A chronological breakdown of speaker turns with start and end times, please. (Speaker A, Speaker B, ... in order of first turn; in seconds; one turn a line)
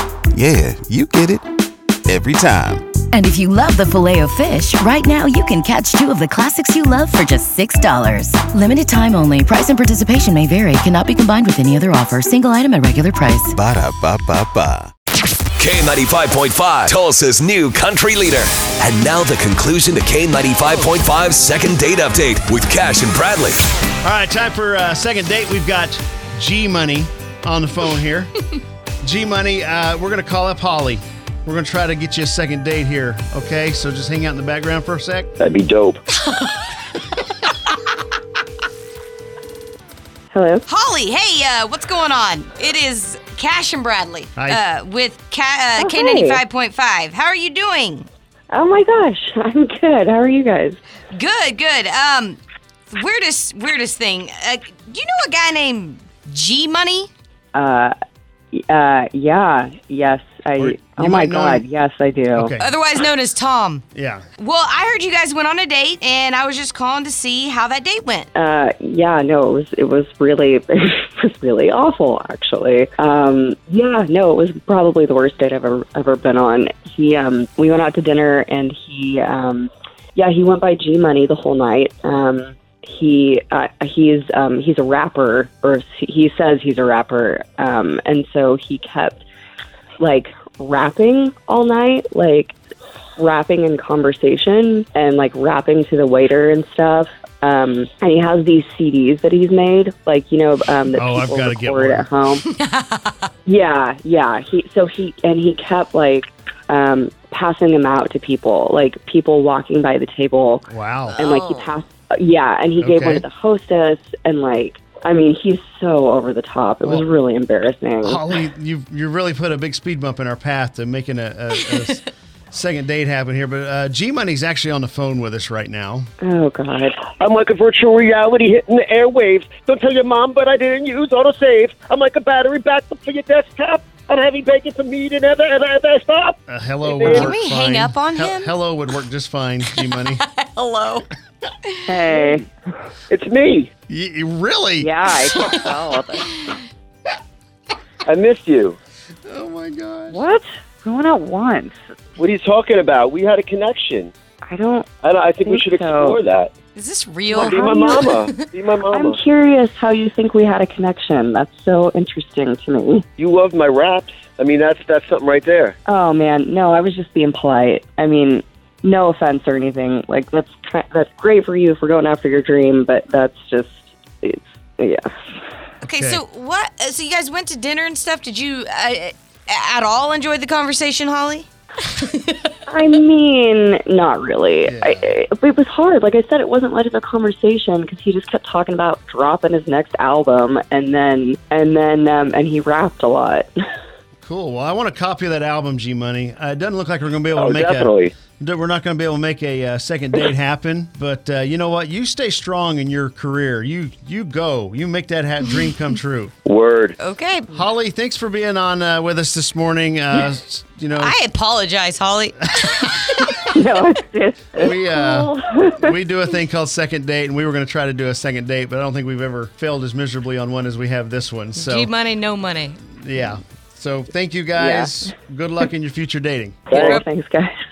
Speaker A: 0.3-1.4
Speaker A: 2.0-2.9
Speaker B: 3.1-13.5
Speaker A: 13.5-14.9
Speaker C: 15.6-23.6
Speaker D: 24.0-28.3
Speaker D: 29.0-35.3
Speaker E: 35.4-36.0
Speaker F: 36.3-36.6
Speaker G: 40.3-40.6
Speaker F: 40.7-48.1
Speaker G: 45.8-46.4
Speaker G: 48.5-50.8
Speaker F: 51.1-57.1
Speaker G: 57.5-57.9
Speaker G: 58.5-62.5
Speaker D: 60.6-61.6
Speaker D: 62.3-62.7
Speaker F: 62.6-63.8
Speaker D: 63.9-64.2
Speaker F: 64.4-68.3
Speaker G: 68.3-89.2
Speaker G: 90.0-92.5
Speaker G: 93.2-102.4
Speaker D: 100.9-102.1
Speaker F: 102.5-103.3
Speaker G: 103.5-118.2
Speaker D: 110.7-111.2
Speaker F: 111.1-111.7
Speaker D: 112.8-113.3
Speaker D: 118.0-126.1
Speaker G: 126.2-127.0
Speaker E: 127.2-137.4
Speaker D: 136.5-140.2
Speaker F: 137.1-138.5
Speaker F: 139.8-141.1
Speaker G: 141.9-142.5
Speaker E: 142.1-142.4
Speaker E: 143.1-143.7
Speaker D: 143.9-144.9
Speaker G: 144.8-146.3
Speaker E: 148.1-148.8
Speaker D: 149.2-150.2
Speaker G: 150.1-151.7
Speaker E: 152.2-154.1
Speaker G: 154.5-154.9
Speaker E: 155.0-156.5
Speaker G: 155.4-156.2
Speaker F: 156.8-158.4
Speaker G: 157.3-158.2
Speaker E: 157.4-159.2
Speaker G: 158.9-163.1
Speaker E: 163.2-165.8
Speaker G: 165.9-175.1
Speaker D: 175.8-176.2
Speaker F: 175.8-182.5
Speaker G: 182.7-193.5
Speaker D: 184.7-185.0
Speaker D: 194.2-206.3
Speaker E: 197.3-198.2
Speaker E: 206.4-206.9
Speaker F: 207.0-207.6
Speaker D: 207.5-211.2
Speaker F: 211.0-213.4
Speaker D: 212.7-213.2
Speaker G: 213.5-215.9
Speaker D: 214.6-221.9
Speaker F: 221.6-222.8
Speaker D: 223.0-226.7
Speaker G: 224.6-225.0
Speaker G: 226.7-227.5
Speaker E: 226.7-227.0
Speaker F: 226.7-227.0